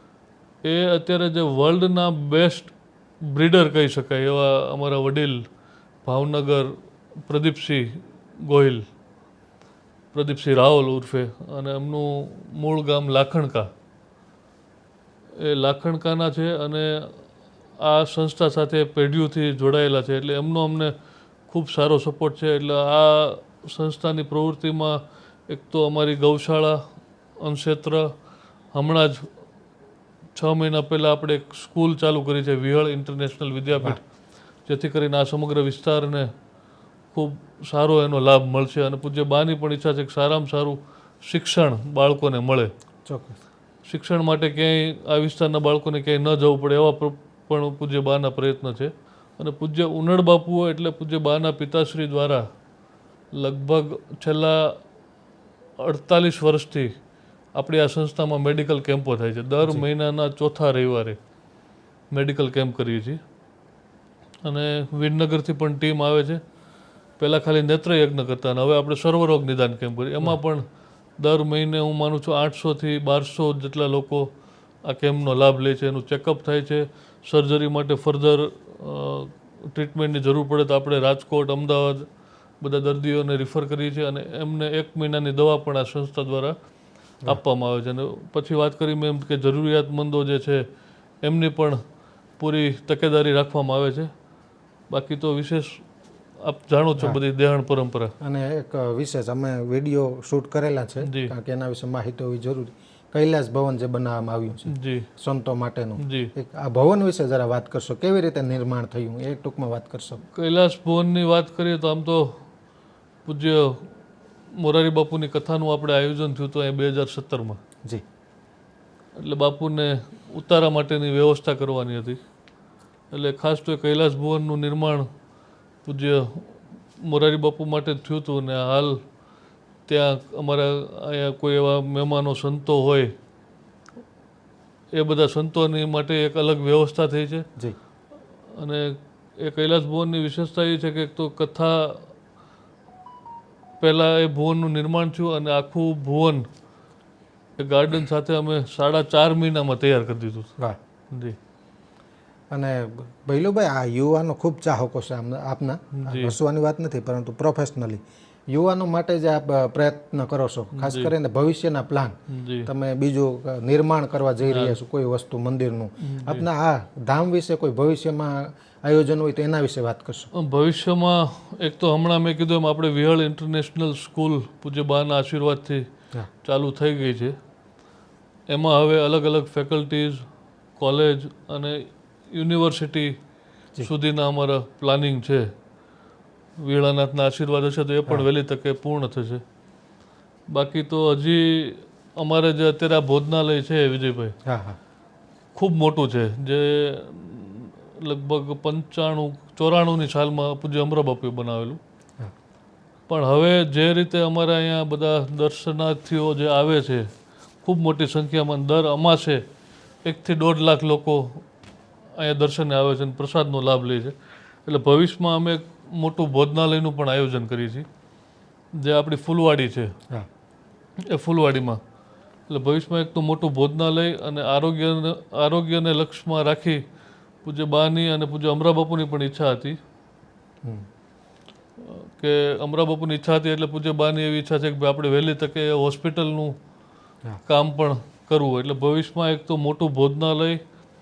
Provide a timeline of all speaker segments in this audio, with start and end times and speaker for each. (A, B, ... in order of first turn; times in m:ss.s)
0:00.6-0:05.5 A
0:06.0-0:08.9 A
0:10.1-0:13.7 A
0:15.4-0:17.2 A
0:17.8-0:20.9 A
0:21.5-0:26.8 A
0:27.4-0:28.1 A
0:28.7-0:29.3 A
0:30.4-0:34.0 A
0:34.7-0:36.3 A
0:37.1-0:42.7 A
0:43.1-0:43.4 B
0:43.9-0:52.5 A
0:53.4-0:54.8 A
0:55.8-0:56.9 A
0:57.6-1:01.2 A
1:02.1-1:03.2 A
1:04.4-1:06.4 A
1:07.2-1:10.6 A
1:11.2-1:14.3 A
1:14.8-1:22.1 A
1:22.6-1:26.6 A
1:27.3-1:30.7 A
1:31.2-1:31.8 A
1:32.4-1:34.1 A
1:34.9-1:35.8 A
1:36.4-1:38.1 A
1:38.2-1:50.2 B
1:41.0-1:41.3 A
1:44.7-1:45.1 A
1:46.0-1:46.3 A
1:50.3-1:52.4 A
1:53.2-1:54.0 A
1:54.5-1:57.6 A
1:59.2-2:02.2 A
2:03.1-2:05.1 A
2:05.8-2:09.0 A
2:09.9-2:13.1 A
2:14.9-2:17.5 A
2:18.6-2:22.1 A
2:23.8-2:26.4 A
2:27.6-2:30.5 A
2:31.1-2:31.4 A
2:32.5-2:38.0 B
2:36.0-2:36.4 A
2:38.5-2:50.3 B
2:40.7-2:41.1 A
2:42.3-2:42.7 A
2:44.5-2:44.8 A
2:46.0-2:46.5 A
2:50.3-2:55.9 A
2:56.4-2:57.4 A
2:58.5-3:03.2 A
3:03.8-3:05.5 A
3:06.6-3:09.4 A
3:10.5-3:14.4 A
3:14.5-3:14.8 B
3:15.6-3:21.8 A
3:23.1-3:27.1 A
3:27.6-3:29.4 A
3:30.0-3:31.4 A
3:32.2-3:37.9 A
3:38.8-3:39.9 A
3:41.1-3:41.8 A
3:42.5-3:46.8 A
3:47.4-3:49.8 A
3:51.8-3:56.6 A
3:57.5-4:00.6 A